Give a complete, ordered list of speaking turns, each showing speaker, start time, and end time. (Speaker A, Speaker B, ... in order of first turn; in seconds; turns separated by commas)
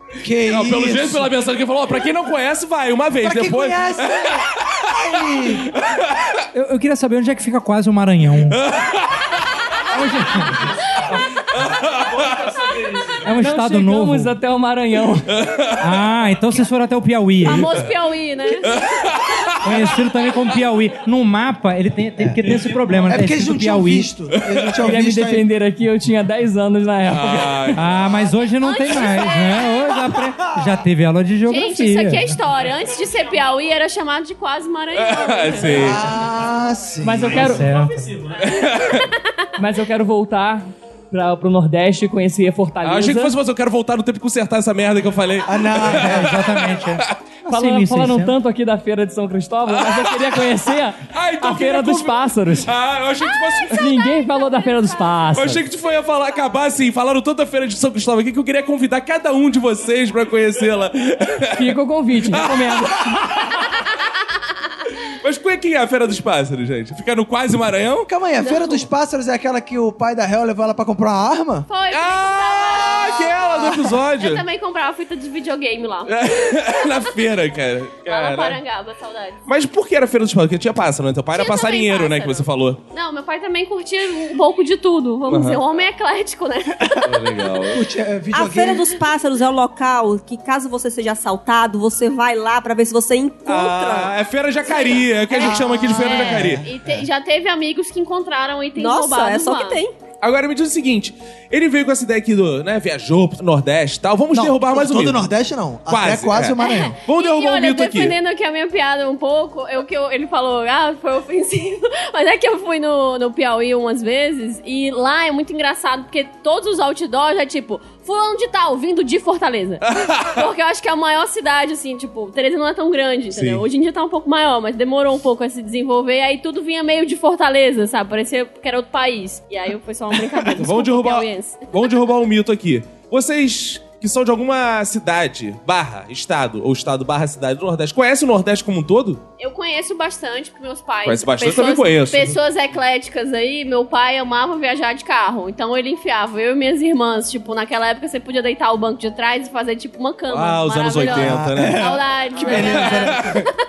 Speaker A: 0.2-1.3, Speaker B: 0.5-4.8, Speaker A: 3.2-5.7, Speaker B: 5.7-6.5, Speaker C: 6.5-8.6, Speaker B: 8.5-9.4, Speaker C: 9.9-11.2, Speaker B: 11.5-12.6, Speaker C: 13.2-14.4, Speaker D: 13.3-15.3, Speaker B: 15.3-15.8, Speaker C: 15.8-17.9, Speaker E: 17.4-18.8, Speaker B: 18.7-19.5, Speaker C: 19.6-24.1, Speaker A: 23.1-25.4, Speaker B: 24.4-24.8, Speaker D: 24.8-27.8, Speaker B: 27.1-27.8, Speaker C: 27.8-32.4, Speaker E: 28.6-30.0, Speaker A: 30.4-30.8, Speaker E: 31.5-36.0, Speaker B: 35.0-36.1, Speaker A: 35.7-37.7, Speaker D: 37.0-37.8, Speaker C: 37.4-38.1, Speaker B: 38.4-39.1, Speaker D: 39.6-43.3, Speaker B: 42.8-46.8, Speaker A: 45.5-46.4, Speaker C: 46.0-48.4, Speaker D: 47.5-52.7, Speaker B: 49.7-54.0, Speaker D: 53.7-55.6, Speaker B: 55.3-63.1, Speaker D: 61.6-63.6, Speaker B: 65.2-68.1, Speaker A: 68.0-71.7, Speaker E: 68.4-68.9, Speaker E: 71.7-76.2, Speaker B: 71.9-74.4, Speaker B: 76.1-78.6, Speaker E: 78.0-79.4, Speaker B: 79.5-82.8, Speaker E: 81.3-87.1, Speaker B: 85.3-85.6, Speaker B: 87.0-87.8, Speaker A: 87.7-88.9, Speaker F: 88.3-94.1, Speaker B: 93.5-96.7, Speaker E: 94.7-99.8, Speaker A: 95.4-96.6, Speaker F: 98.8-99.9, Speaker B: 100.2-105.2, Speaker A: 104.3-107.0, Speaker B: 105.9-108.2, Speaker E: 106.6-131.9, Speaker B: 120.0-120.3, Speaker B: 123.3-123.6, Speaker B: 130.6-139.2, Speaker E: 139.4-153.4, Speaker B: 141.1-142.4, Speaker B: 150.3-151.8, Speaker A: 151.1-153.5, Speaker B: 152.4-153.4